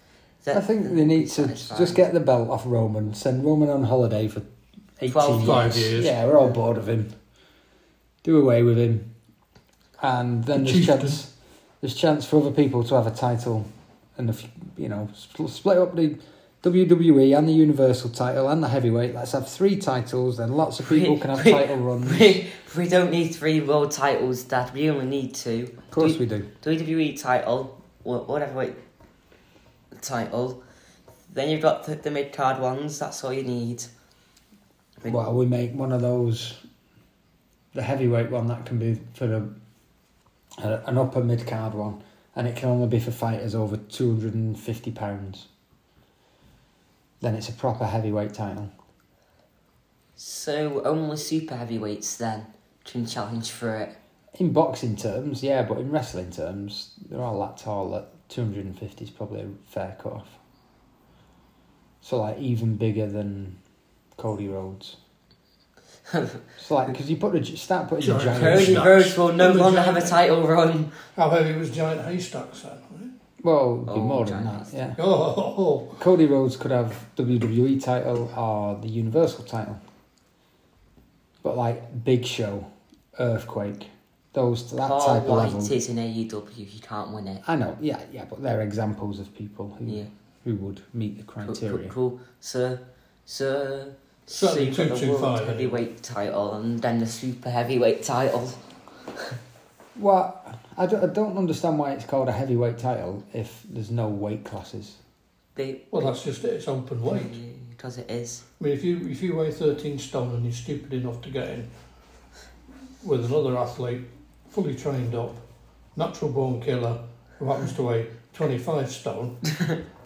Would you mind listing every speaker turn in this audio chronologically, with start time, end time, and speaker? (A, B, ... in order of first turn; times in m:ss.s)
0:00.4-0:02.0 A
0:00.5-0:04.5 B
0:05.0-0:07.1 B
0:05.1-0:05.7 A
0:05.4-0:06.2 C
0:08.2-0:09.1 B
0:10.0-0:22.4 B
0:10.6-0:11.2 C
0:20.8-0:28.8 A
0:25.9-0:26.5 B
0:29.9-0:30.6 A
0:31.3-0:33.9 A
0:35.0-0:36.6 B
0:37.7-0:39.5 B
0:40.6-0:45.5 B
0:47.2-0:48.7 B
0:50.2-0:53.9 A
0:54.3-1:00.4 B
1:02.0-1:03.6 B
1:04.2-1:05.0 B
1:06.1-1:06.4 A
1:06.6-1:08.9 B
1:08.0-1:10.2 C
1:08.3-1:10.9 A
1:11.1-1:13.1 C
1:13.4-1:15.0 B
1:13.9-1:14.7 A
1:15.0-1:16.0 C
1:16.0-1:19.8 B
1:21.4-1:25.8 B
1:24.8-1:27.4 A
1:27.4-1:31.9 B
1:31.4-1:38.6 A
1:34.3-1:35.8 C
1:39.9-1:45.0 B
1:45.6-1:46.1 A
1:45.9-1:47.4 C
1:47.1-1:48.4 A
1:48.6-1:51.7 C
1:53.0-1:55.4 C
1:55.9-1:59.8 C